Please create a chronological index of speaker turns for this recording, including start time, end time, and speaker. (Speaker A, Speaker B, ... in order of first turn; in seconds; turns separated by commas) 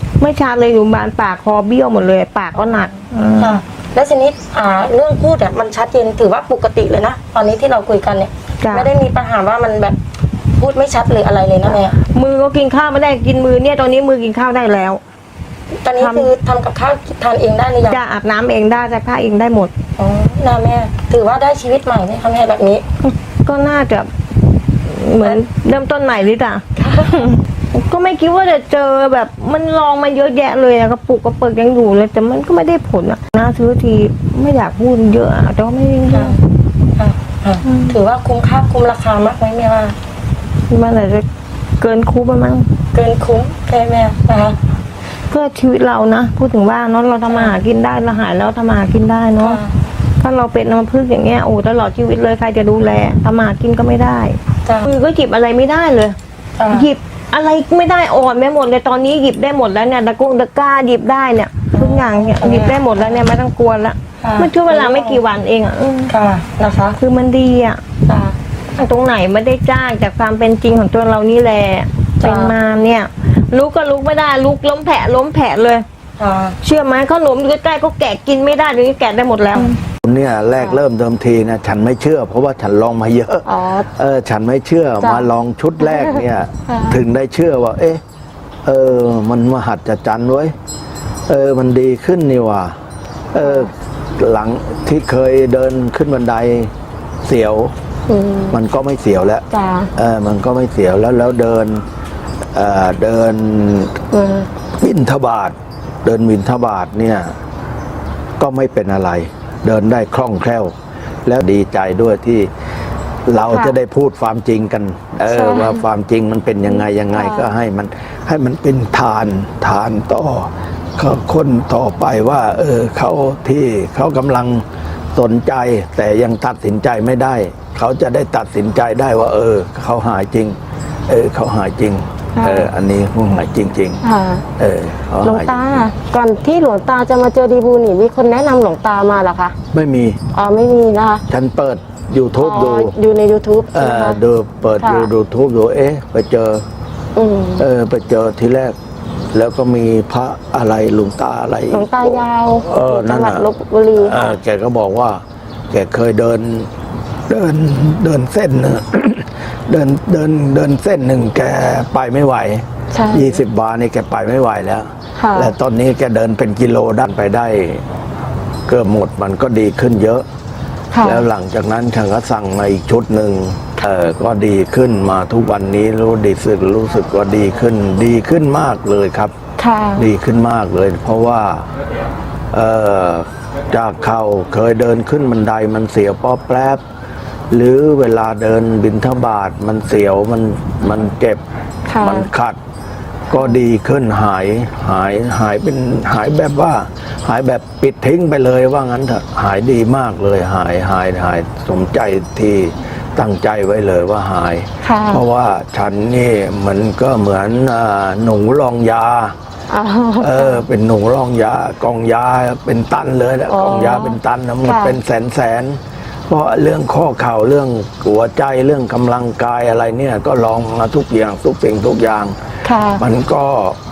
Speaker A: 0.2-3.6, Speaker B: 3.4-10.0, Speaker A: 8.6-8.9, Speaker B: 10.6-11.9, Speaker A: 11.6-15.0, Speaker B: 15.8-18.0, Speaker A: 16.0-16.3, Speaker A: 17.9-19.7, Speaker B: 20.0-22.8, Speaker A: 23.0-24.1, Speaker A: 24.8-26.6, Speaker B: 25.2-25.4, Speaker B: 26.8-27.2, Speaker A: 27.2-36.4, Speaker B: 36.1-36.4, Speaker B: 37.0-40.0, Speaker A: 37.6-38.0, Speaker A: 40.7-41.3, Speaker A: 41.8-42.7, Speaker B: 42.9-44.6, Speaker A: 45.3-49.6, Speaker B: 47.3-47.5, Speaker B: 49.4-49.7, Speaker A: 50.2-56.2, Speaker B: 56.6-56.9, Speaker A: 56.7-66.2, Speaker B: 61.7-63.2, Speaker B: 64.2-65.2, Speaker B: 66.1-67.0, Speaker A: 67.0-67.8, Speaker B: 68.1-68.3, Speaker A: 68.8-75.8, Speaker B: 72.2-72.6, Speaker B: 76.2-76.6, Speaker A: 76.6-79.8, Speaker C: 80.0-88.0, Speaker B: 83.5-83.9, Speaker B: 85.0-85.3, Speaker B: 85.8-87.0, Speaker C: 88.7-90.5, Speaker C: 91.3-92.8, Speaker C: 93.3-96.7, Speaker B: 93.4-93.7, Speaker C: 97.2-97.7, Speaker B: 98.1-98.6, Speaker C: 98.5-101.8, Speaker B: 99.5-99.9, Speaker C: 102.5-104.0, Speaker B: 104.1-104.5, Speaker C: 104.8-107.4, Speaker C: 108.4-112.5, Speaker C: 113.3-124.6, Speaker B: 113.4-113.7, Speaker B: 115.3-115.8, Speaker B: 117.1-117.5, Speaker C: 125.2-130.6, Speaker C: 131.1-134.0, Speaker B: 132.3-132.7, Speaker B: 134.0-134.4, Speaker C: 134.6-135.6, Speaker B: 135.2-139.6, Speaker C: 139.7-140.2, Speaker B: 140.3-141.2, Speaker C: 141.3-142.9, Speaker B: 142.4-144.2, Speaker C: 143.7-146.7, Speaker B: 144.8-145.1, Speaker B: 147.2-147.7, Speaker C: 147.6-148.8, Speaker C: 149.3-156.7, Speaker B: 151.7-154.4, Speaker C: 157.3-167.8, Speaker B: 162.9-163.4, Speaker B: 165.2-165.5, Speaker C: 168.7-170.2, Speaker B: 170.9-171.2, Speaker C: 171.0-179.3, Speaker B: 179.6-180.1, Speaker C: 180.0-181.7, Speaker C: 182.5-186.8, Speaker C: 187.5-191.4, Speaker B: 191.9-192.3, Speaker C: 192.0-192.6, Speaker C: 193.3-209.3, Speaker B: 204.8-205.2, Speaker B: 209.7-210.6, Speaker C: 210.2-222.3, Speaker B: 213.5-215.0, Speaker B: 222.7-223.0, Speaker C: 223.0-223.8